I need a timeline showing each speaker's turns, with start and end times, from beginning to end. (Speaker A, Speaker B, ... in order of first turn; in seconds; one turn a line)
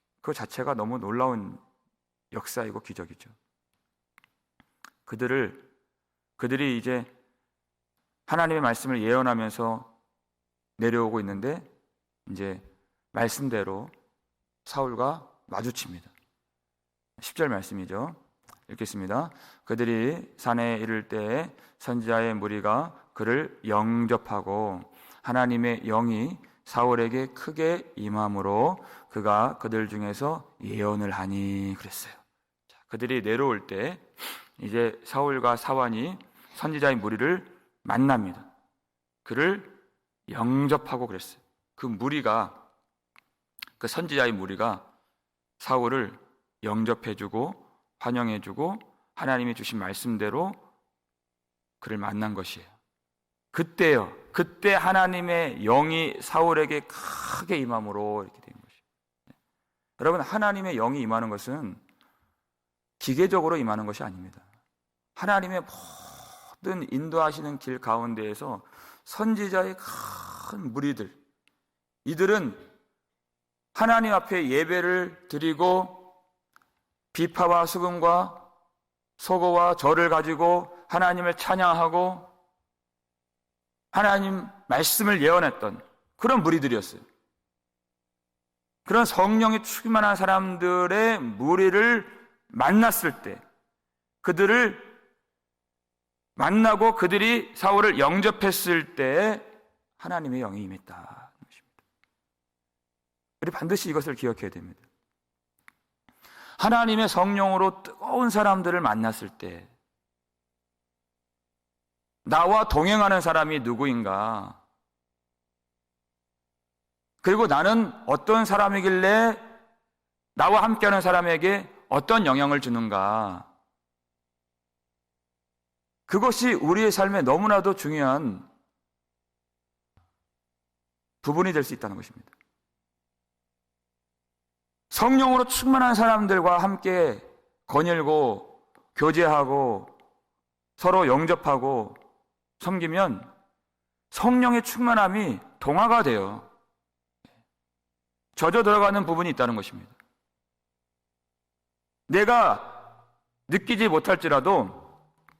Speaker A: 0.2-1.6
Speaker A: 2.3-3.3
Speaker A: 5.0-5.7
Speaker A: 6.4-7.1
Speaker A: 8.3-9.9
Speaker A: 10.8-11.7
Speaker A: 12.2-13.9
Speaker A: 14.6-16.1
Speaker A: 17.2-32.2
Speaker A: 32.9-34.0
Speaker A: 34.6-38.5
Speaker A: 39.2-39.8
Speaker A: 40.3-42.6
Speaker A: 43.8-44.9
Speaker A: 45.6-50.6
Speaker A: 51.8-52.7
Speaker A: 53.5-58.7
Speaker A: 60.0-61.8
Speaker A: 63.0-64.4
Speaker A: 65.2-71.2
Speaker A: 72.0-72.7
Speaker A: 73.7-76.1
Speaker A: 77.1-78.5
Speaker A: 79.2-82.3
Speaker A: 83.9-87.0
Speaker A: 88.8-93.4
Speaker A: 94.2-94.9
Speaker A: 96.3-101.6
Speaker A: 103.4-104.8
Speaker A: 106.6-109.7
Speaker A: 112.2-114.6
Speaker A: 117.2-119.5
Speaker A: 120.3-123.5
Speaker A: 126.1-128.4
Speaker A: 131.2-132.3
Speaker A: 134.9-139.9
Speaker A: 140.8-142.0
Speaker A: 142.6-143.3
Speaker A: 144.1-146.5
Speaker A: 148.3-149.9
Speaker A: 152.1-152.8
Speaker A: 153.5-154.9